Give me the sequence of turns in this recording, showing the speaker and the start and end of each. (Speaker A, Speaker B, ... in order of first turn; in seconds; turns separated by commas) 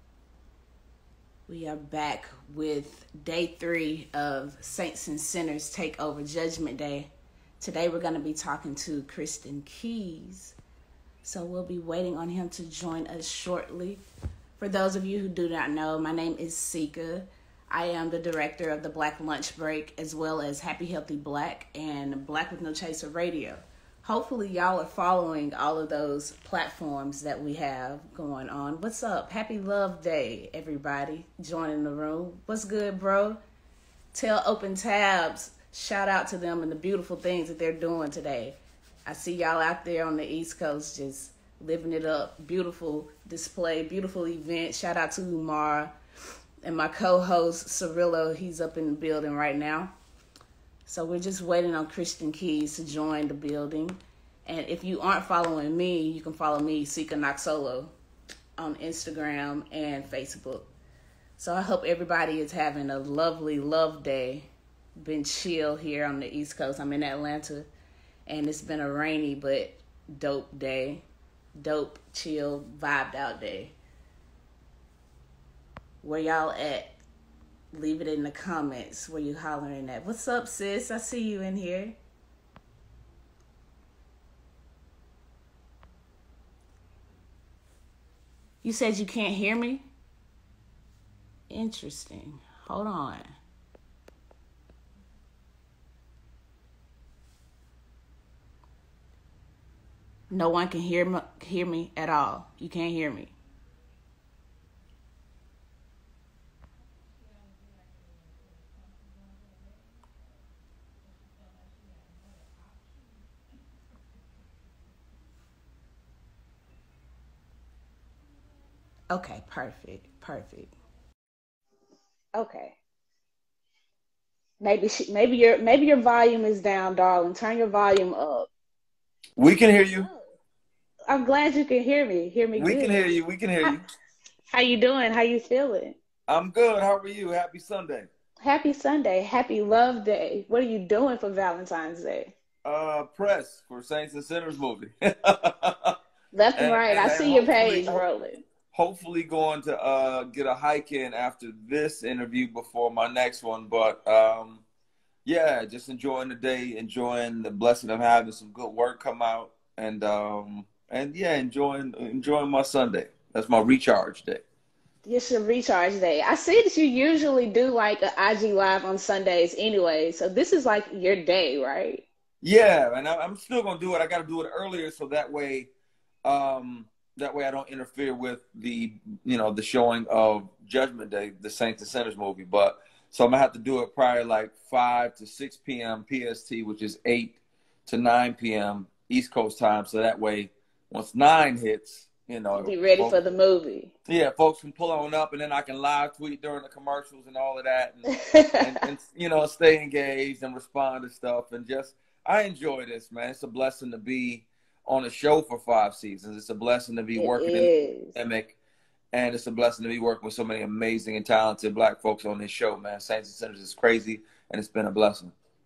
Speaker A: 1.5-10.6, Speaker A: 11.2-14.0, Speaker A: 14.6-33.4, Speaker A: 34.1-45.9, Speaker A: 46.6-49.9, Speaker A: 50.9-57.9, Speaker A: 58.6-60.7, Speaker A: 61.4-67.7, Speaker A: 68.3-71.0, Speaker A: 71.5-73.7, Speaker A: 76.0-77.0, Speaker A: 77.7-82.0, Speaker A: 88.6-89.8, Speaker A: 91.5-93.3, Speaker A: 100.3-103.3, Speaker A: 119.1-120.7, Speaker A: 122.3-122.8, Speaker A: 124.6-128.5, Speaker B: 129.4-130.1, Speaker A: 129.9-130.3, Speaker A: 131.1-133.1, Speaker B: 132.6-133.8, Speaker A: 134.5-136.0, Speaker B: 136.3-138.1, Speaker A: 138.4-142.3, Speaker B: 142.6-145.9, Speaker A: 146.3-148.4, Speaker B: 146.6-148.0, Speaker B: 148.7-154.6, Speaker B: 155.2-164.4, Speaker A: 165.0-172.0, Speaker B: 172.4-175.7, Speaker B: 176.2-193.2, Speaker A: 192.5-193.9, Speaker B: 194.1-198.0, Speaker A: 198.2-198.8, Speaker B: 198.6-208.5, Speaker A: 207.1-208.2, Speaker B: 209.1-215.3